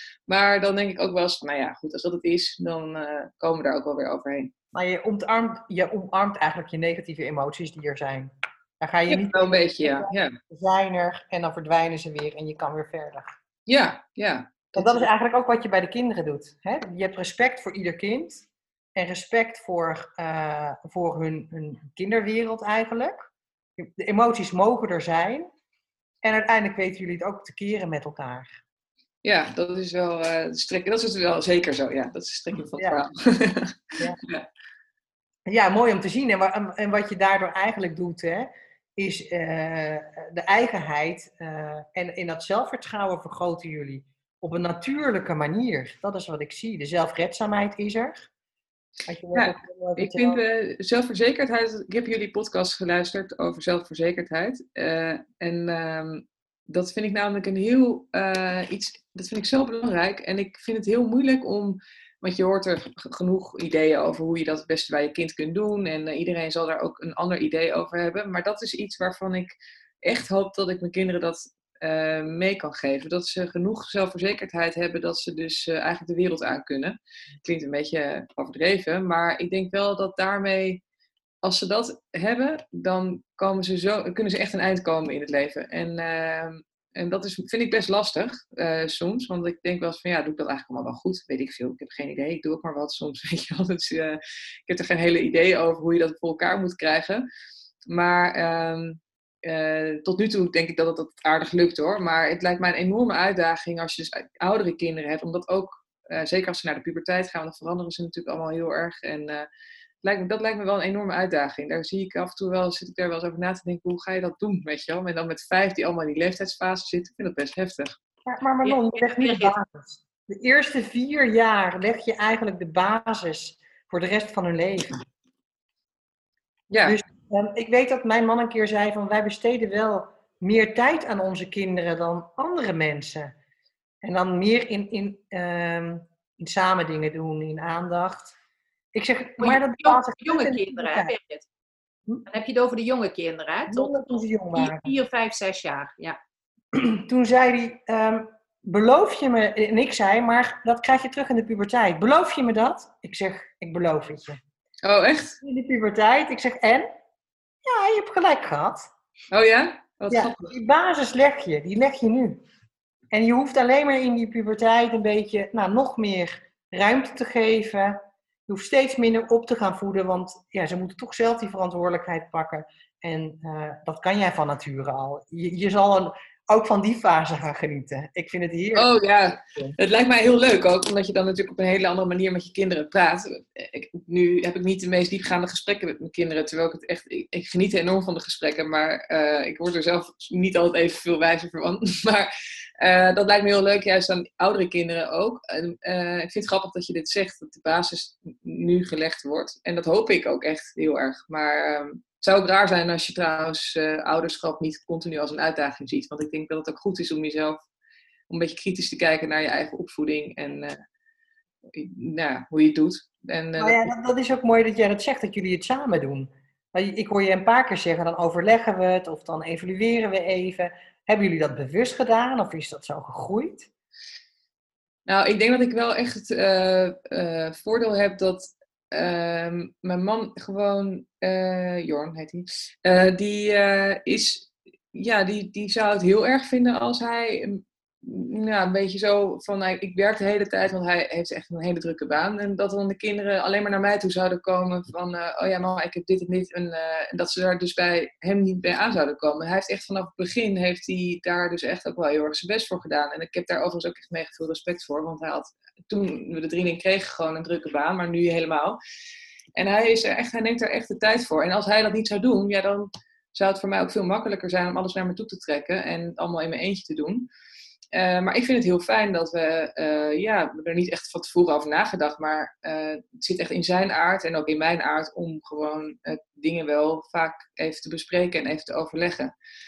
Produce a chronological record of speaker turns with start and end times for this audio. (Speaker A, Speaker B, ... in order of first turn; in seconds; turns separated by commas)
Speaker A: 0.3-4.5, Speaker B: 4.7-13.3, Speaker A: 9.1-10.3, Speaker A: 13.7-15.1, Speaker B: 14.8-23.2, Speaker B: 23.8-25.5, Speaker B: 26.2-28.6, Speaker A: 29.2-34.5, Speaker B: 35.5-48.3, Speaker B: 49.1-50.4, Speaker A: 49.3-80.8, Speaker A: 81.4-97.3, Speaker A: 97.9-109.5, Speaker A: 110.0-118.0, Speaker B: 118.3-125.0, Speaker C: 118.6-119.5, Speaker A: 126.7-127.0, Speaker B: 126.8-133.3, Speaker B: 134.0-138.3, Speaker B: 138.9-141.1, Speaker C: 139.4-141.5, Speaker C: 142.3-146.2, Speaker B: 143.7-144.9, Speaker B: 146.7-154.4, Speaker A: 154.8-155.4, Speaker B: 155.4-156.9, Speaker B: 157.7-158.9, Speaker A: 159.3-160.5, Speaker B: 160.1-162.4, Speaker B: 163.1-178.9, Speaker A: 178.7-207.6, Speaker A: 208.3-210.8, Speaker A: 211.7-213.9, Speaker B: 213.6-223.7, Speaker A: 225.1-258.8, Speaker A: 259.6-267.3, Speaker A: 267.9-279.3